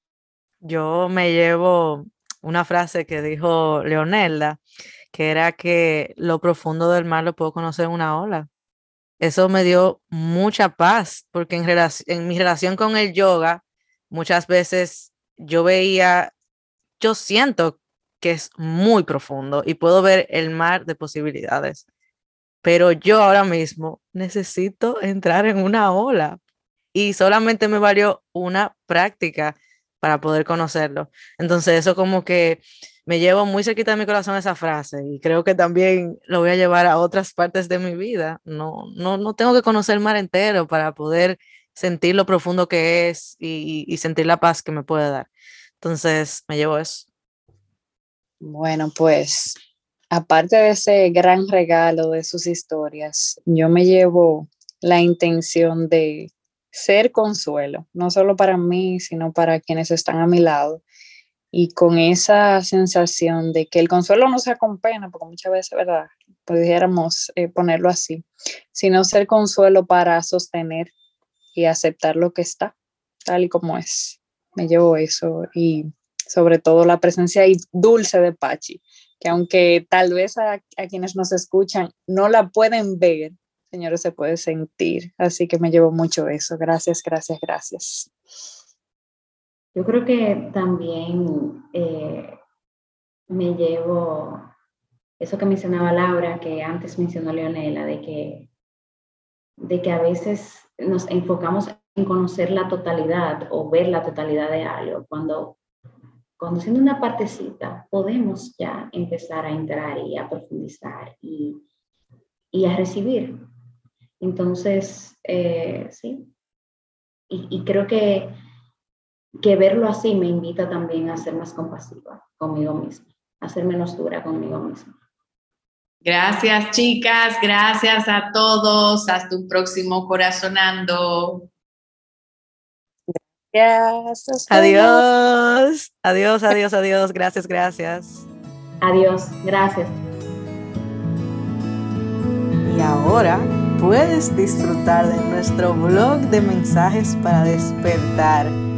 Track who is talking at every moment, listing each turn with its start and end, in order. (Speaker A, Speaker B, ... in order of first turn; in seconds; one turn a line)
Speaker A: 0.6-4.6
Speaker A: 5.1-8.5
Speaker A: 9.2-16.3
Speaker A: 17.0-21.8
Speaker A: 22.6-26.4
Speaker A: 26.9-45.3
Speaker A: 45.8-47.1
Speaker B: 48.4-49.6
Speaker B: 50.1-60.8
Speaker B: 61.5-70.9
Speaker B: 71.5-72.7
Speaker B: 73.2-88.1
Speaker C: 89.8-92.4
Speaker C: 93.3-94.5
Speaker C: 95.2-98.5
Speaker C: 99.6-105.6
Speaker C: 106.4-111.7
Speaker C: 112.5-113.4
Speaker C: 114.2-116.3
Speaker C: 117.3-118.3
Speaker C: 119.4-124.9
Speaker D: 126.0-131.5
Speaker B: 133.5-135.0
Speaker A: 134.5-138.3
Speaker C: 138.8-140.0
Speaker A: 142.6-148.6